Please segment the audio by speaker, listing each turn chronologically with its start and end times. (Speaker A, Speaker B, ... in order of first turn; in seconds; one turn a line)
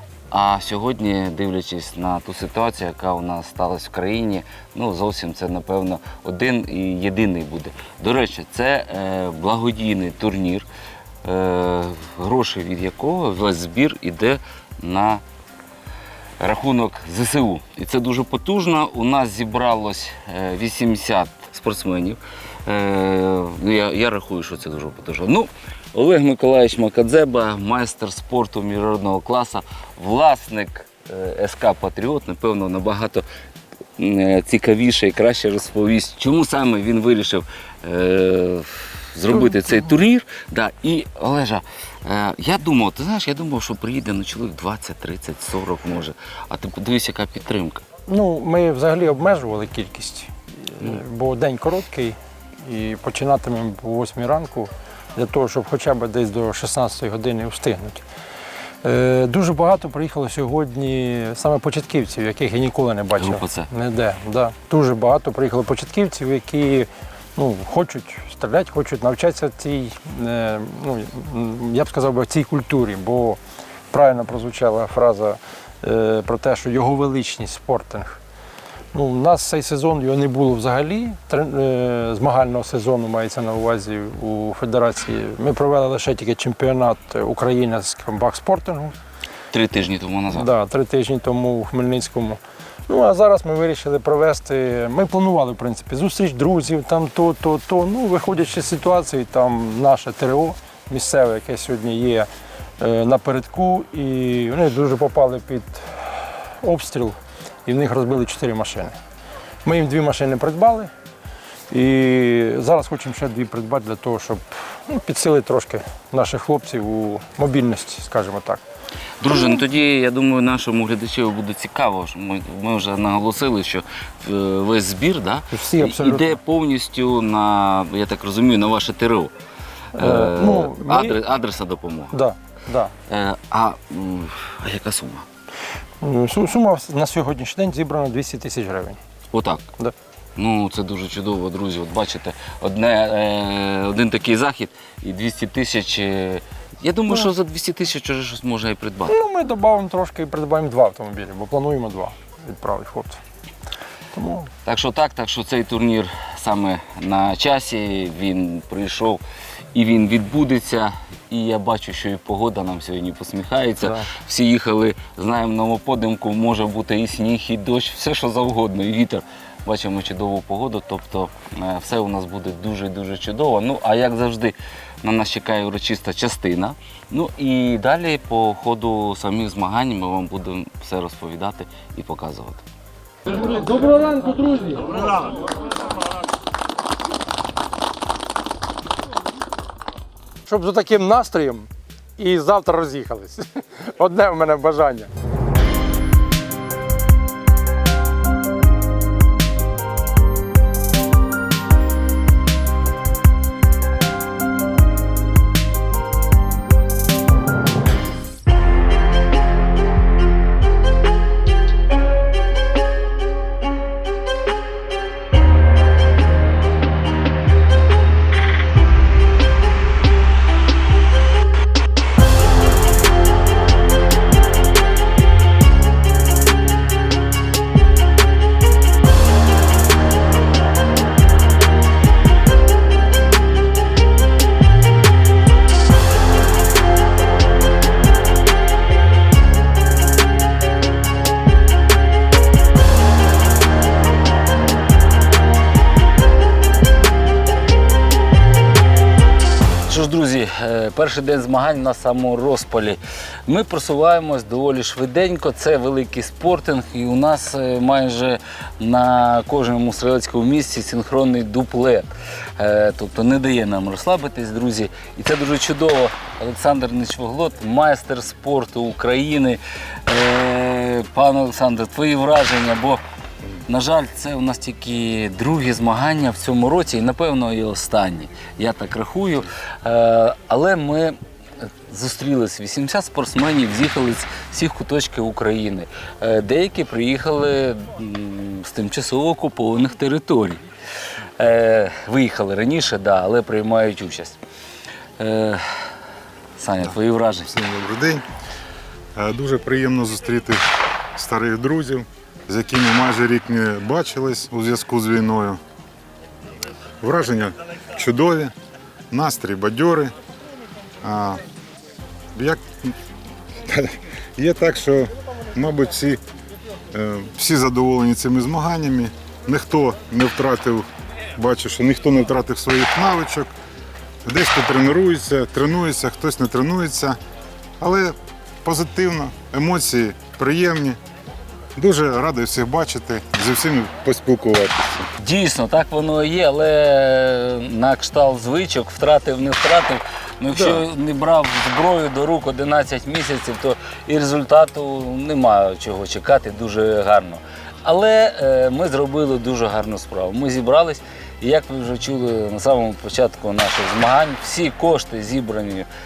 Speaker A: 0.3-10.7
Speaker A: 11.2-15.2
Speaker A: 16.4-33.3
Speaker A: 34.0-47.8
Speaker B: 48.1-58.0
Speaker B: 58.8-73.4
Speaker A: 63.2-63.7
Speaker B: 73.9-78.2
Speaker B: 78.9-88.9
Speaker A: 89.5-90.5
Speaker B: 90.3-102.3
Speaker B: 102.8-108.9
Speaker B: 109.7-110.9
Speaker B: 111.7-118.6
Speaker A: 119.2-129.3
Speaker B: 125.5-126.4
Speaker B: 130.0-131.2
Speaker A: 130.0-132.2
Speaker B: 132.1-132.9
Speaker A: 133.1-135.3
Speaker B: 136.0-139.0
Speaker A: 139.3-139.7
Speaker A: 140.4-149.1
Speaker B: 149.1-153.2
Speaker B: 154.1-154.5
Speaker A: 154.7-159.2
Speaker A: 159.7-182.6
Speaker B: 183.4-184.9
Speaker B: 190.5-195.1
Speaker A: 249.9-273.0
Speaker A: 273.6-290.6
Speaker A: 291.4-294.4
Speaker A: 295.2-295.6
Speaker A: 296.6-297.5
Speaker C: 297.5-298.2
Speaker C: 299.1-300.6
Speaker C: 301.2-305.6
Speaker C: 307.0-308.5
Speaker C: 309.1-310.1
Speaker C: 311.0-311.4
Speaker C: 312.4-312.9
Speaker C: 313.7-316.2
Speaker C: 316.9-323.5
Speaker C: 324.2-327.2
Speaker C: 327.8-331.0
Speaker C: 331.8-335.1
Speaker A: 335.2-355.9